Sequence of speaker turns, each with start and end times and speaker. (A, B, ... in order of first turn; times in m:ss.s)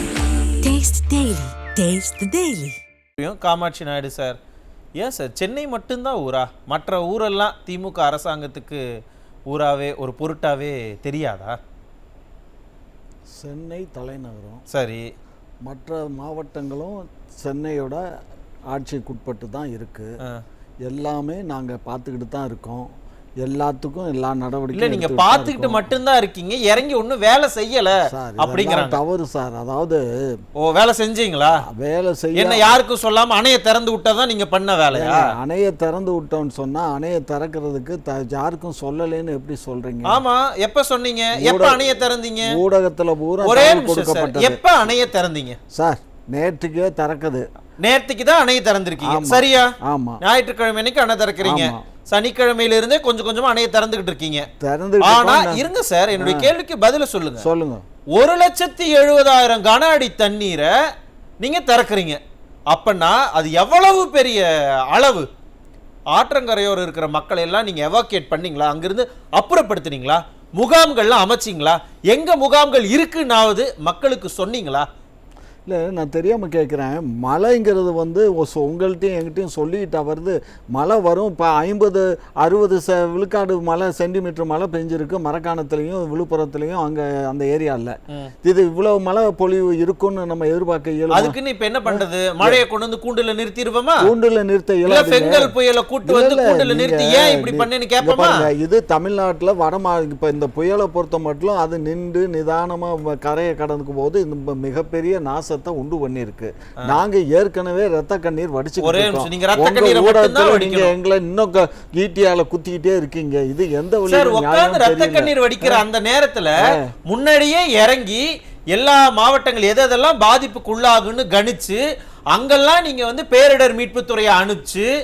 0:00.6-0:02.8 A
0:03.2-0:04.4 B
0:05.0-0:08.8 B
0:09.5-0:11.6 B
0:13.3-0:14.6 C
0:14.7-0:15.1 B
0:15.6-0:18.0 C
0:18.7-0:20.1 C
0:20.9-0:25.9 C
0:24.7-0:29.0 B
0:28.0-0:30.3 C
0:30.6-0:31.6 B
0:31.6-0:32.7 C
0:32.4-0:35.2 B
0:34.9-0:40.2 C
0:40.1-0:42.5 B
0:41.4-0:44.6 C
0:43.4-0:45.6 B
0:45.7-0:47.5 C
0:47.8-0:49.7 B
0:49.0-0:50.2 C
0:50.2-0:54.5 B
0:51.4-0:51.8 C
0:54.6-0:56.5 C
0:55.0-0:57.5 B
0:57.4-0:57.8 C
0:58.2-1:00.7 B
1:01.4-1:02.2 B
1:02.7-1:05.3 B
1:06.2-1:14.8 B
1:15.7-1:31.4 C
1:31.1-1:34.0 B
1:31.9-1:32.6 C
1:34.0-1:35.5 C
1:34.9-1:38.5 B
1:36.0-1:55.8 C
1:48.8-1:50.9 B
1:54.1-2:01.8 B
1:56.6-1:56.9 C
2:02.3-2:04.9 B